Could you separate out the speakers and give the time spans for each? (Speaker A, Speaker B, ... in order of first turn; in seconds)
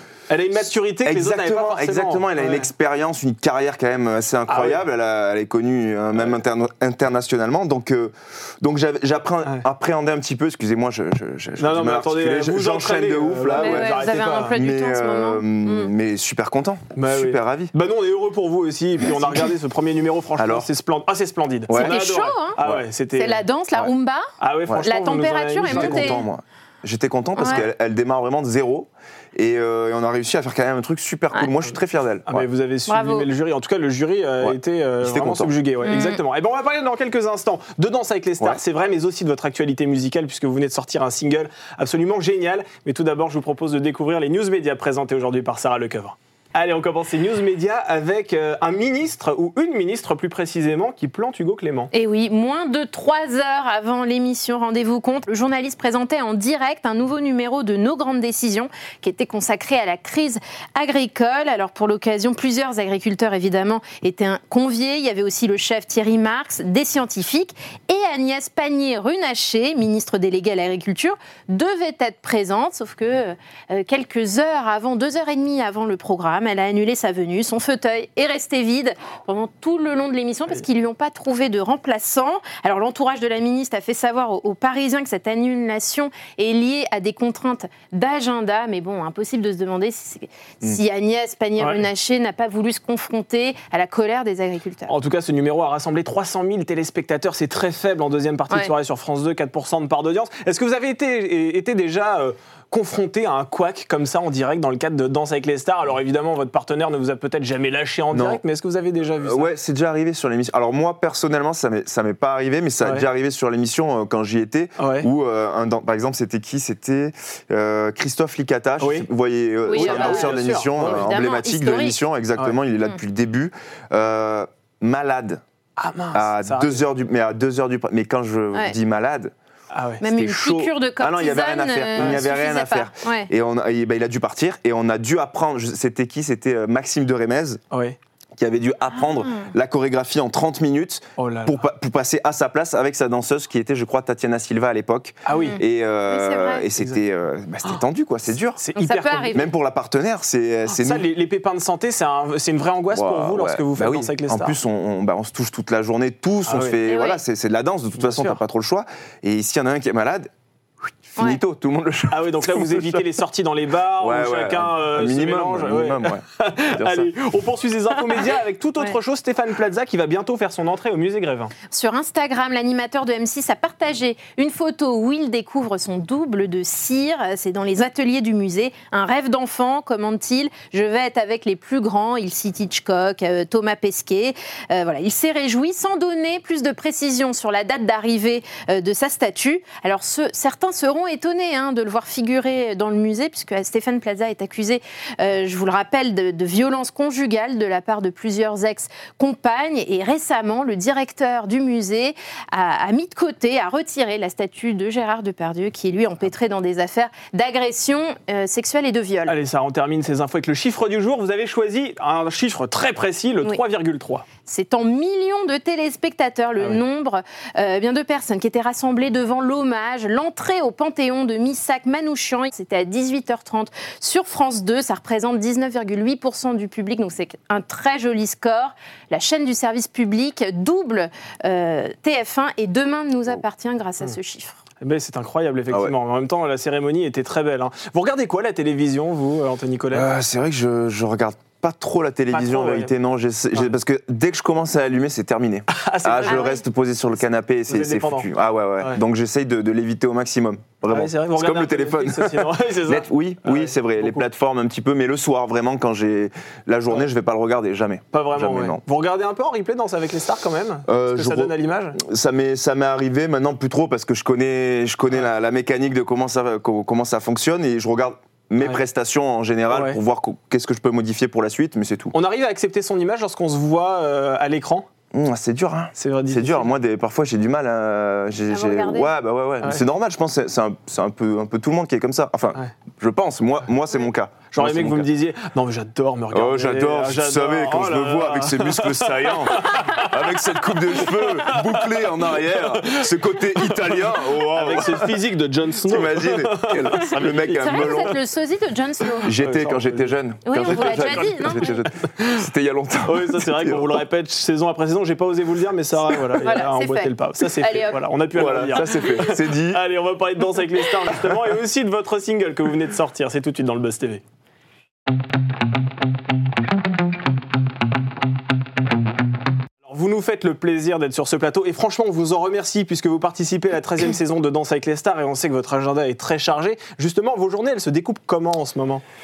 Speaker A: 0.3-2.7, 4.5-4.8, 11.6-14.5, 16.9-23.4, 24.4-26.2, 32.3-51.9, 94.9-109.5, 114.8-115.1, 118.8-119.1, 119.7-121.1, 125.8-126.8, 129.7-130.0, 131.9-132.2, 137.7-138.0, 141.2-141.6, 145.2-145.6, 148.6-149.4, 150.7-154.6, 156.4-156.8, 158.0-158.4, 162.1-171.5, 209.3-214.2, 234.8-240.1, 242.3-242.9, 245.7-246.5, 247.7-248.3, 250.9-254.2, 258.1-262.0, 269.7-270.0, 272.1-274.9, 276.0-276.7, 284.5-290.3, 291.0-298.1, 299.3-300.1, 300.7-302.4, 303.0-314.2, 319.8-329.0
Speaker B: 1.0-17.7, 20.4-20.7, 21.7-22.0, 22.6-22.8, 25.6-32.5, 34.4-35.5, 108.1-108.4, 109.2-125.4, 126.1-129.3, 130.0-137.6, 138.3-148.6, 149.3-151.1, 152.9-160.3, 161.0-163.1, 164.0-167.1, 239.9-258.8, 260.9-272.1, 275.1-285.1, 286.3-295.2, 295.8-298.2, 299.2-304.0, 308.3-309.8
Speaker C: 13.5-15.9, 21.7-22.6, 23.1-26.3, 27.4-27.6, 32.9-33.3, 35.8-36.2, 51.9-94.9, 119.7-122.0, 130.0-133.3, 145.3-146.7, 148.8-149.5, 156.8-157.2, 171.7-209.3, 214.4-234.6, 246.3-246.6, 278.5-279.1, 297.5-299.3, 300.4-301.8, 306.4-308.0